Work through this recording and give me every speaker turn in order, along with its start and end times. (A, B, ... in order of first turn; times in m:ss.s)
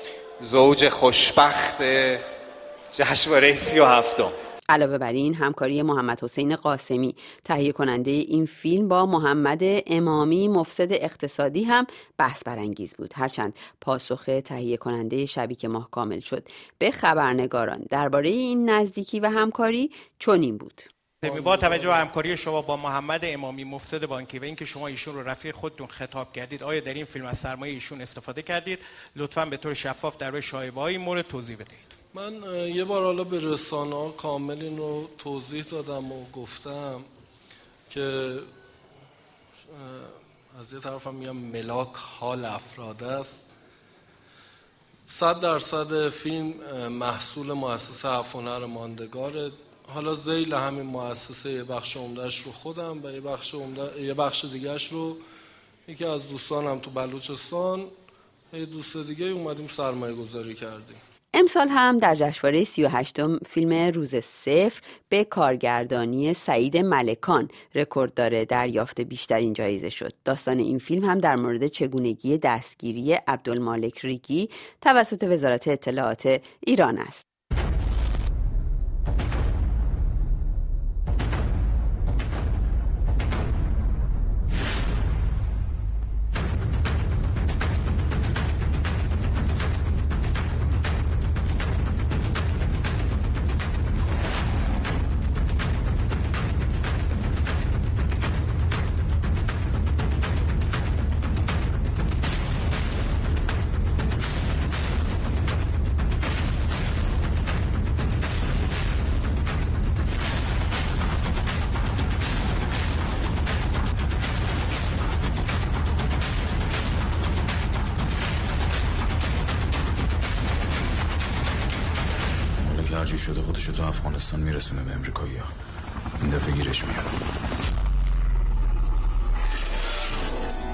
0:00.4-0:02.2 A
0:02.9-0:04.3 A
0:04.7-0:20.9 B
0:21.2-0:31.9 C
0:21.2-0:21.8 D
0:32.1-0:37.0 D
0:37.9-0:38.5 D
0:39.7-0:43.5 D
0:45.1-0:55.2 D
0:55.9-0:57.9 D
0:58.5-1:01.0 D
1:01.3-1:17.2 B
2:02.6-2:05.5 E
2:06.2-2:07.2 E